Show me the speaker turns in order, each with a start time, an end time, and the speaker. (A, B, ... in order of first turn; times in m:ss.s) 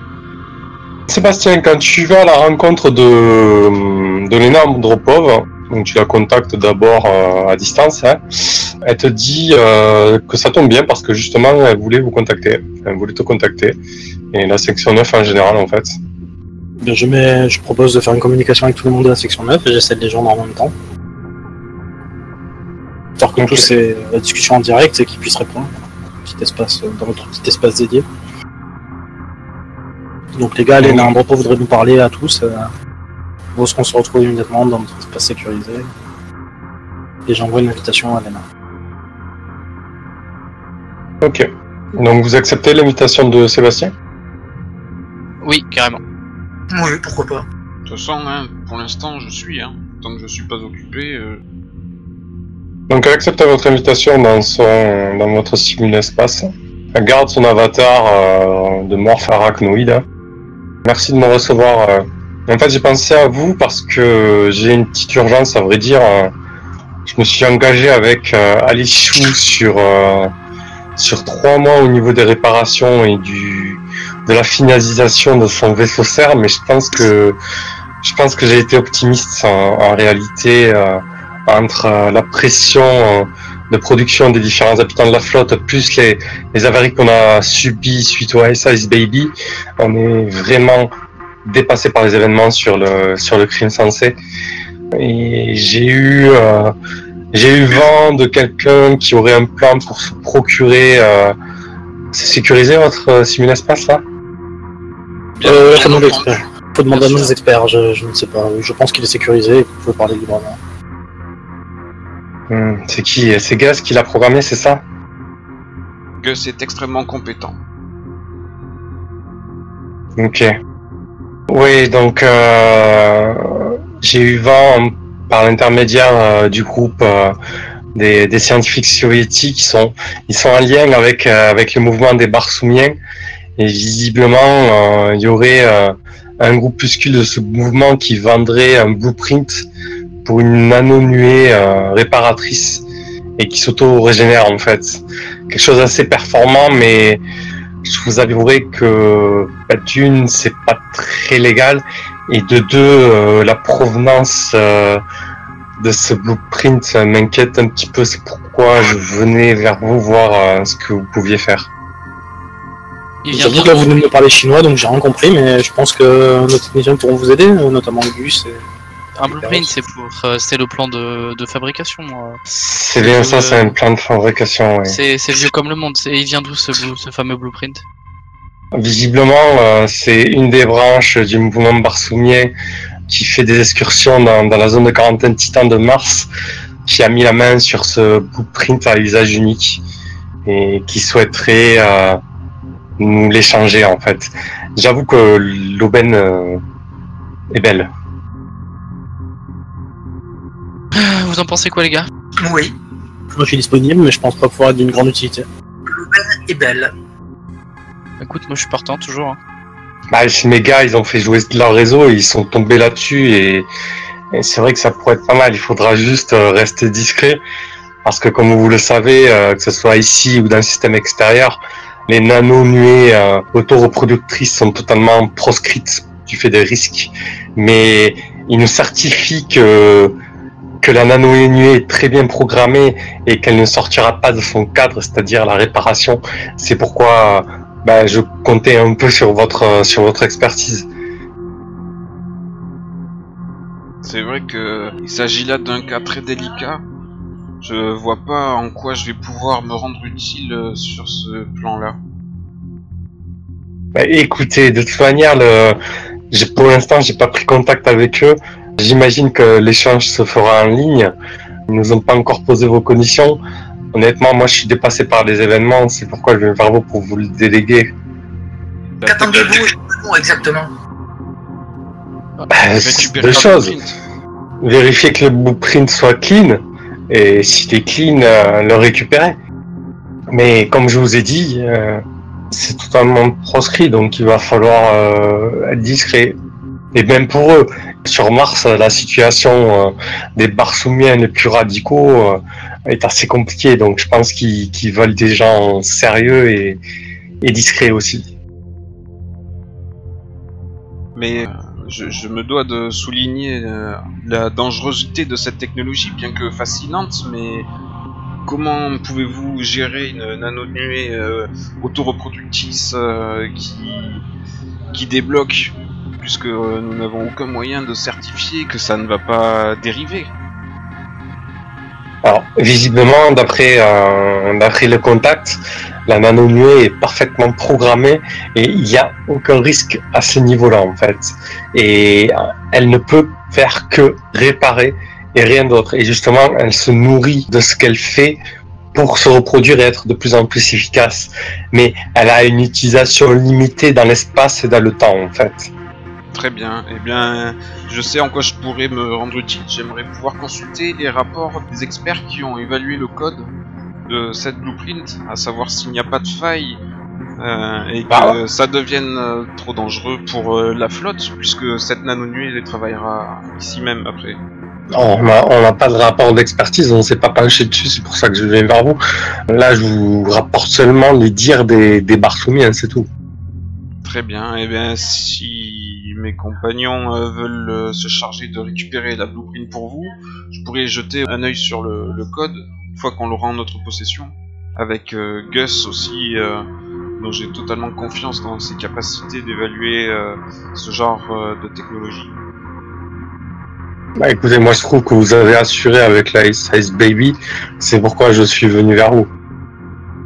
0:01.1-0:13.8 A
0:14.3-0:16.0 A
0:16.8-0:20.7 B
0:23.2-0:25.7 B
0:23.4-0:23.7 A
0:26.2-0:28.0 B
0:30.3-0:32.7 B
0:30.8-0:31.1 A
0:33.5-0:35.9 B
0:37.2-0:38.4 B
0:41.2-0:43.9 A
0:45.4-0:46.0 C
0:46.7-0:47.4 D
0:47.9-0:51.4 E
0:52.9-1:00.0 A
1:00.8-1:06.3 A
1:07.0-1:10.3 A
1:11.0-1:17.4 A
1:18.0-1:30.9 A
1:31.4-1:34.2 A
1:34.9-1:36.7 A
1:37.3-1:41.3 A
1:42.1-1:44.0 A
1:45.4-1:46.3 E
1:45.4-1:50.6 B
1:46.9-1:47.3 E
1:52.5-1:54.8 A
1:56.2-1:57.6 E
2:00.2-2:00.5 A
2:01.5-2:07.4 A
2:07.9-2:13.0 A
2:13.6-2:19.7 A
2:20.2-2:22.9 A
2:23.4-2:27.2 A
2:27.8-2:35.0 A
2:35.8-2:41.7 A
2:43.2-2:44.1 C
2:43.3-2:48.6 B
2:49.2-2:52.4 C
2:49.2-2:49.7 B
2:52.5-2:55.0 A
2:53.0-2:53.7 C
2:54.9-2:57.8 C
2:58.7-3:02.5 A
3:03.1-3:06.3 A
3:06.9-3:09.8 A
3:10.4-3:12.2 A
3:13.0-3:16.6 A
3:17.5-3:17.9 A
3:20.9-3:22.1 C
3:22.4-3:22.7 D
3:23.3-3:25.4 B
3:25.9-3:26.9 D
3:28.2-3:29.4 C
3:30.1-3:33.7 A
3:34.3-3:37.4 A
3:38.0-3:50.1 A
3:50.8-4:00.9 A
4:04.0-4:06.8 E
4:07.6-4:12.0 E
4:13.9-4:15.8 A
4:16.3-4:21.1 A
4:21.7-4:23.4 A
4:23.9-4:27.9 A
4:29.0-4:29.6 E
4:29.1-4:30.7 D
4:32.5-4:33.8 A
4:32.7-4:34.0 E
4:34.6-4:39.4 A
4:40.3-4:46.4 A
4:46.9-4:56.8 A
4:57.4-4:58.3 A
5:01.1-5:07.7 E
5:08.4-5:14.2 E
5:14.9-5:20.3 E
5:22.2-5:38.4 A
5:38.9-5:45.7 A
5:46.3-5:53.5 E
5:54.1-5:56.8 E
5:57.4-6:04.4 E
5:58.1-5:58.4 A
6:04.9-6:13.1 A
6:14.0-6:26.6 E
6:27.2-6:32.3 E
6:34.2-6:39.3 A